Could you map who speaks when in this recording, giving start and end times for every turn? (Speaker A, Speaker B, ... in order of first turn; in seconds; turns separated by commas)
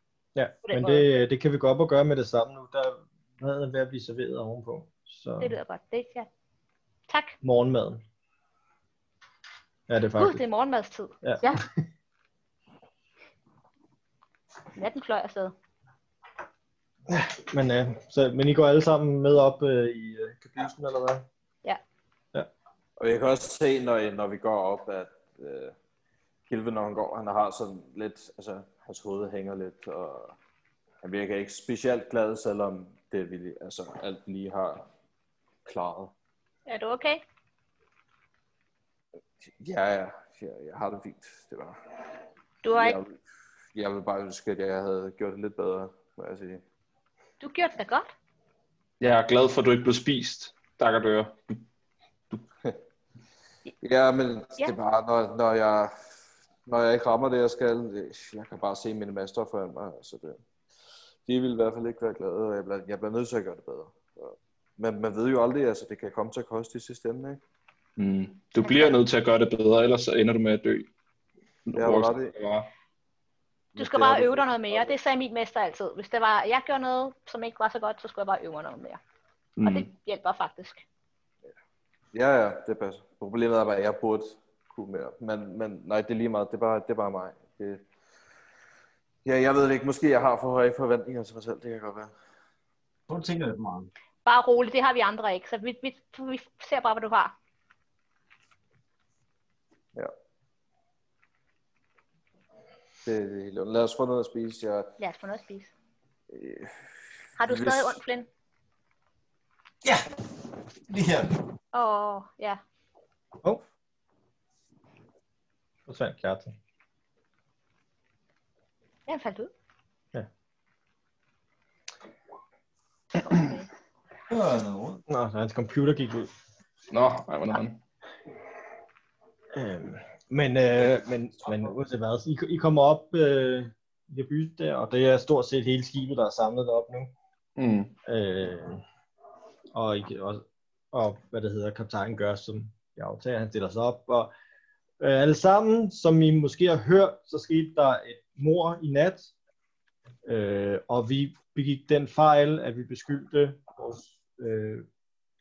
Speaker A: 0.3-5.5, Speaker B: 0.7-1.1, Speaker B: 5.4-6.3, Speaker B: 7.1-7.3, Speaker A: 7.4-8.0, Speaker A: 9.9-10.4, Speaker B: 10.2-11.6, Speaker A: 11.2-11.8, Speaker B: 14.8-15.5, Speaker A: 17.1-21.2, Speaker C: 23.0-25.7, Speaker C: 26.5-30.3, Speaker C: 31.0-34.9, Speaker C: 35.6-36.1, Speaker B: 36.7-37.2, Speaker C: 39.4-41.8, Speaker B: 42.6-43.0, Speaker C: 42.7-43.2, Speaker C: 43.7-46.6, Speaker B: 47.4-48.1, Speaker D: 49.0-51.6, Speaker C: 53.8-56.1, Speaker C: 56.6-60.4, Speaker C: 61.2-67.4, Speaker D: 68.0-70.9, Speaker B: 68.6-69.0, Speaker D: 71.7-72.7, Speaker C: 71.7-72.3, Speaker C: 73.7-75.0, Speaker B: 73.8-79.0, Speaker D: 79.6-79.9, Speaker B: 79.6-80.8, Speaker C: 82.1-87.8, Speaker C: 89.2-92.1, Speaker E: 93.1-93.9, Speaker B: 94.2-97.3, Speaker C: 103.0-104.9, Speaker B: 105.0-105.7, Speaker C: 106.3-106.8, Speaker B: 107.4-108.3, Speaker C: 107.4-108.0, Speaker E: 110.9-111.3, Speaker B: 111.7-112.6, Speaker A: 115.9-116.5, Speaker B: 119.1-119.5, Speaker B: 123.1-123.7, Speaker E: 124.3-125.0, Speaker A: 125.1-126.3, Speaker D: 126.9-127.8, Speaker A: 129.5-137.1, Speaker D: 137.6-137.9, Speaker A: 138.1-138.8, Speaker A: 139.7-144.3, Speaker A: 145.0-149.3, Speaker A: 150.2-154.8